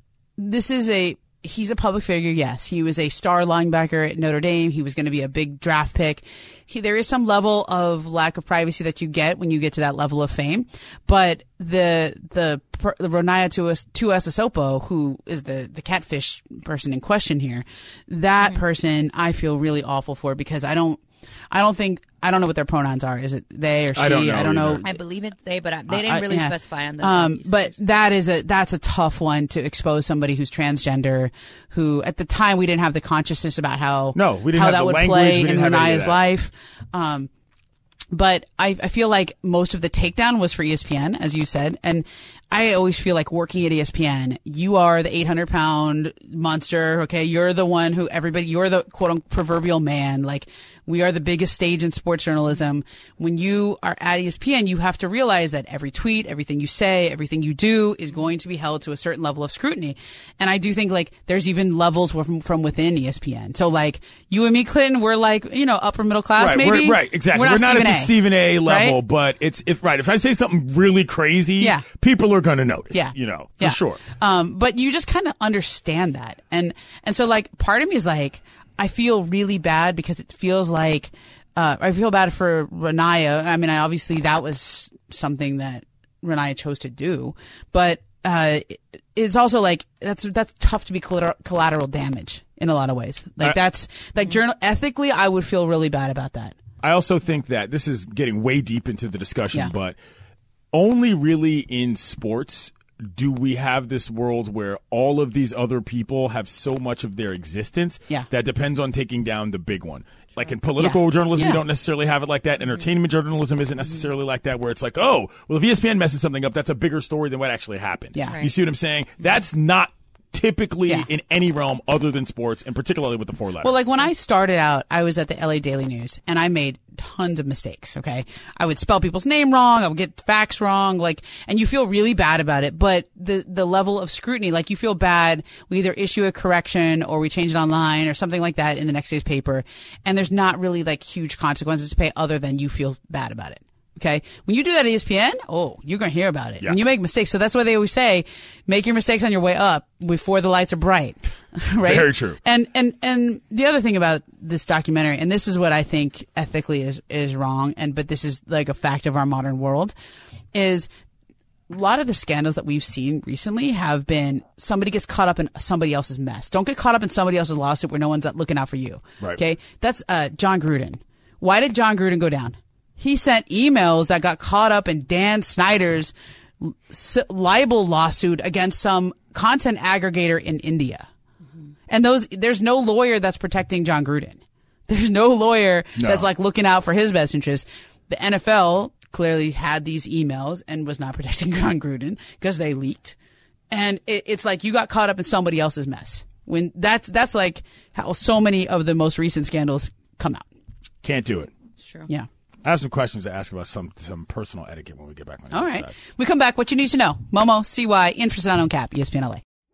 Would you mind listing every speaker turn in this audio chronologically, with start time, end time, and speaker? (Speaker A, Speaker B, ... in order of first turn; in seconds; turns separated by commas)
Speaker A: 0.4-24.8, Speaker B: 23.9-24.9, Speaker C: 24.9-27.7, Speaker A: 25.9-37.3, Speaker B: 34.1-36.2, Speaker A: 38.1-69.0, Speaker B: 66.3-74.0, Speaker A: 72.9-96.6, Speaker B: 96.8-100.0, Speaker B: 100.7-123.9, Speaker A: 110.8-111.6, Speaker A: 123.6-159.9, Speaker B: 151.8-152.4, Speaker A: 160.5-160.9, Speaker A: 161.7-181.1, Speaker A: 181.9-193.2, Speaker B: 186.0-186.3, Speaker A: 193.7-200.4, Speaker B: 201.0-201.5, Speaker C: 201.8-202.1, Speaker B: 202.7-205.9, Speaker A: 205.5-209.4